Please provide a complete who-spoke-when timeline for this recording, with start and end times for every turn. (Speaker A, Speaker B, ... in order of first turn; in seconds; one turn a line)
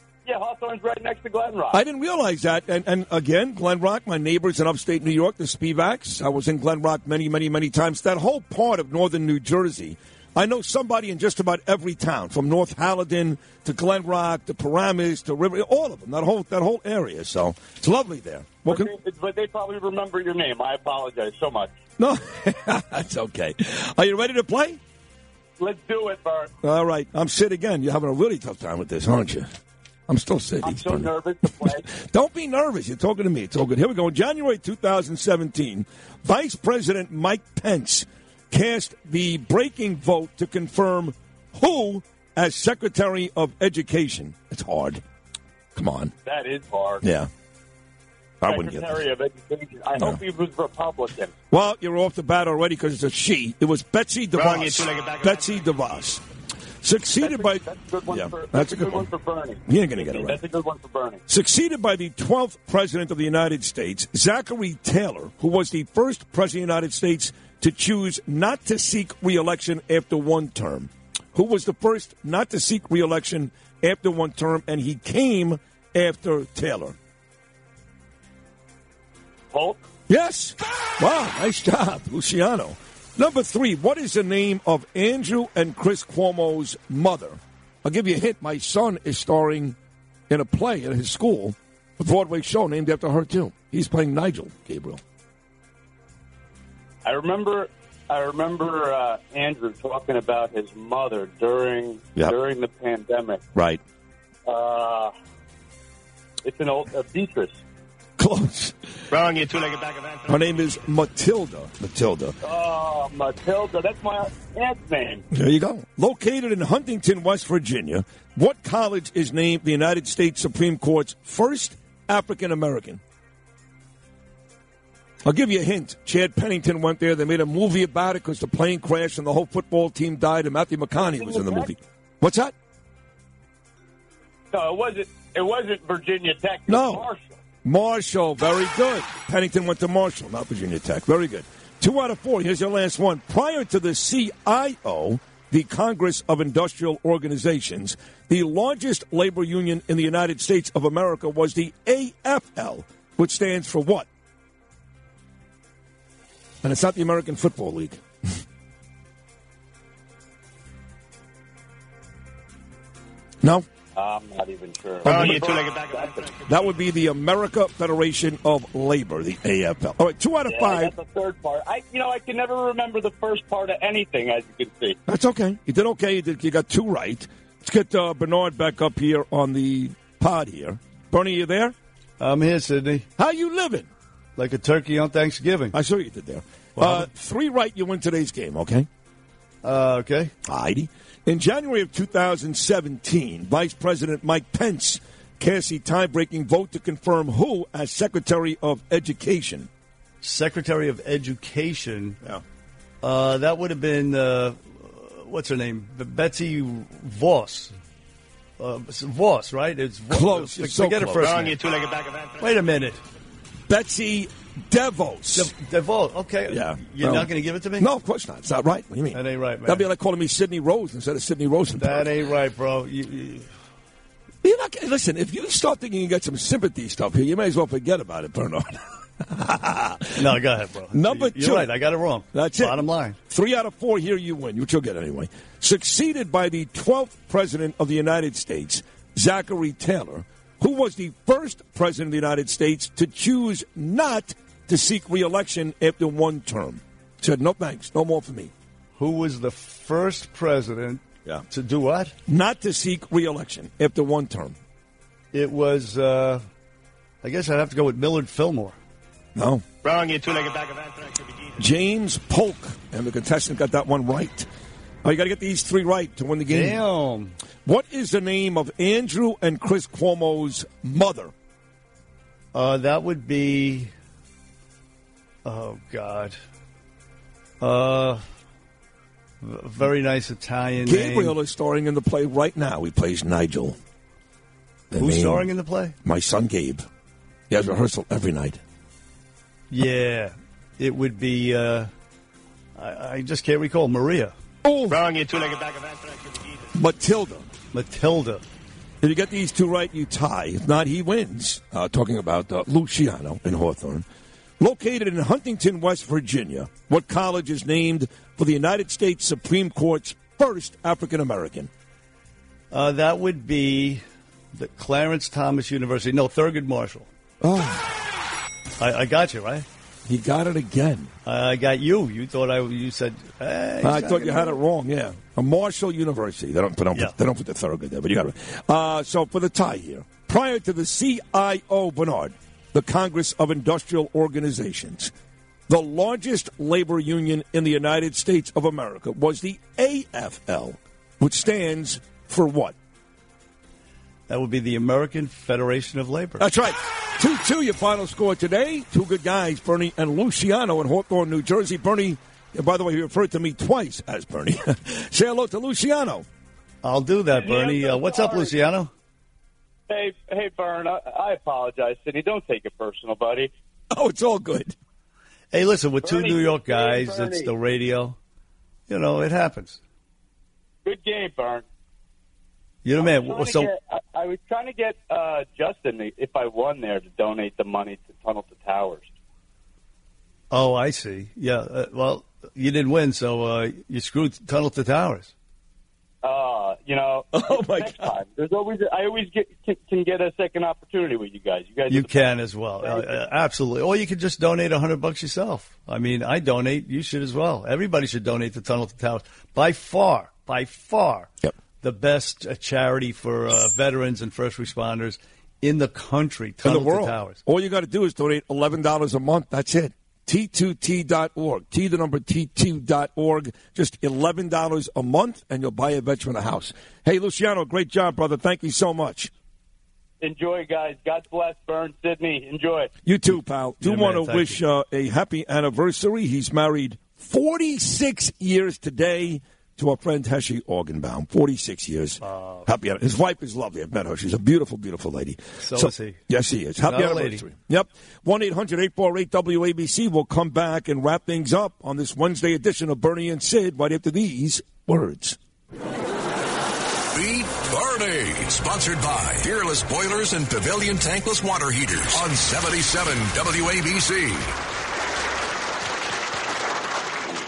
Speaker A: 0.2-1.8
Speaker B: 1.7-18.9
Speaker A: 18.7-21.8
Speaker B: 22.0-24.8
Speaker A: 25.6-26.5
Speaker B: 26.6-29.5
Speaker B: 30.1-45.0
Speaker A: 30.6-31.9
Speaker B: 45.8-46.1
Speaker A: 46.3-47.0
Speaker B: 47.0-47.3
Speaker B: 48.4-49.0
Speaker A: 48.4-51.3
Speaker B: 51.5-56.2
Speaker C: 54.4-55.6
Speaker B: 56.8-59.1
Speaker A: 57.2-61.2
Speaker B: 59.7-60.4
Speaker B: 61.3-77.0
Speaker A: 79.5-79.8
Speaker B: 80.1-89.8
Speaker B: 90.3-95.0
Speaker A: 97.0-103.4
Speaker B: 103.5-103.8
Speaker A: 104.5-105.1
Speaker A: 106.4-107.6
Speaker B: 108.2-108.8
Speaker C: 109.1-110.5
Speaker B: 110.3-112.4
Speaker A: 112.4-115.2
Speaker B: 115.3-123.0
Speaker B: 125.2-132.5
Speaker A: 131.0-131.7
Speaker A: 134.5-137.4
Speaker B: 136.7-137.1
Speaker B: 137.6-154.1
Speaker B: 156.6-158.0
Speaker A: 163.9-166.3
Speaker B: 165.1-165.3
Speaker C: 165.1-166.4
Speaker B: 166.5-170.9
Speaker A: 170.5-175.0
Speaker B: 175.1-181.8
Speaker D: 182.2-183.1
Speaker B: 183.2-183.9
Speaker D: 184.4-185.8
Speaker B: 185.7-188.9
Speaker D: 186.8-187.1
Speaker D: 189.6-190.3
Speaker B: 190.4-199.7
Speaker D: 200.2-202.2
Speaker D: 203.0-207.7
Speaker D: 208.6-211.6
Speaker B: 210.1-211.3
Speaker C: 211.2-212.5
Speaker D: 212.4-213.0
Speaker B: 213.7-215.5
Speaker D: 215.3-217.9
Speaker B: 216.5-222.1
Speaker D: 219.1-219.9
Speaker D: 221.8-223.5
Speaker B: 224.4-230.3
Speaker D: 230.2-233.2
Speaker B: 230.9-231.7
Speaker B: 232.3-248.5
Speaker D: 249.0-252.1
Speaker B: 252.3-254.6
Speaker D: 255.3-256.4
Speaker D: 257.2-258.8
Speaker B: 259.4-259.6
Speaker C: 259.9-261.6
Speaker B: 261.6-264.5
Speaker B: 265.0-266.8
Speaker D: 266.5-267.4
Speaker B: 267.6-271.3
Speaker D: 272.5-273.9
Speaker D: 275.4-276.4
Speaker D: 277.6-278.2
Speaker D: 279.4-281.3
Speaker B: 280.8-283.8
Speaker B: 284.9-285.5
Speaker D: 285.0-285.9
Speaker B: 286.0-286.9
Speaker B: 287.5-288.6
Speaker D: 289.7-291.9
Speaker D: 292.8-294.3
Speaker B: 294.6-295.0
Speaker C: 294.9-296.7
Speaker B: 296.8-297.5
Speaker D: 297.7-298.4
Speaker B: 299.0-304.1
Speaker B: 304.6-311.7
Speaker D: 312.7-314.0
Speaker D: 314.5-317.1
Speaker B: 317.4-318.0
Speaker D: 318.8-319.7
Speaker B: 320.1-321.1
Speaker D: 321.3-324.6
Speaker B: 323.8-335.1
Speaker B: 335.7-342.8
Speaker D: 344.3-346.4
Speaker B: 346.4-356.3
Speaker D: 356.8-358.9
Speaker A: 357.3-358.6
Speaker A: 359.9-363.5
Speaker B: 363.9-364.8
Speaker D: 365.5-368.2
Speaker A: 366.0-367.5
Speaker D: 368.9-369.8
Speaker A: 370.9-371.6
Speaker D: 372.8-373.7
Speaker A: 373.0-379.1
Speaker D: 380.5-385.3
Speaker A: 386.2-393.2
Speaker B: 387.3-388.1
Speaker D: 391.9-401.3
Speaker D: 401.8-407.4
Speaker B: 406.6-419.3
Speaker A: 420.2-422.9
Speaker B: 423.1-445.4
Speaker D: 423.8-424.6
Speaker D: 432.3-432.6
Speaker D: 435.6-436.2
Speaker D: 436.8-437.4
Speaker E: 447.1-454.5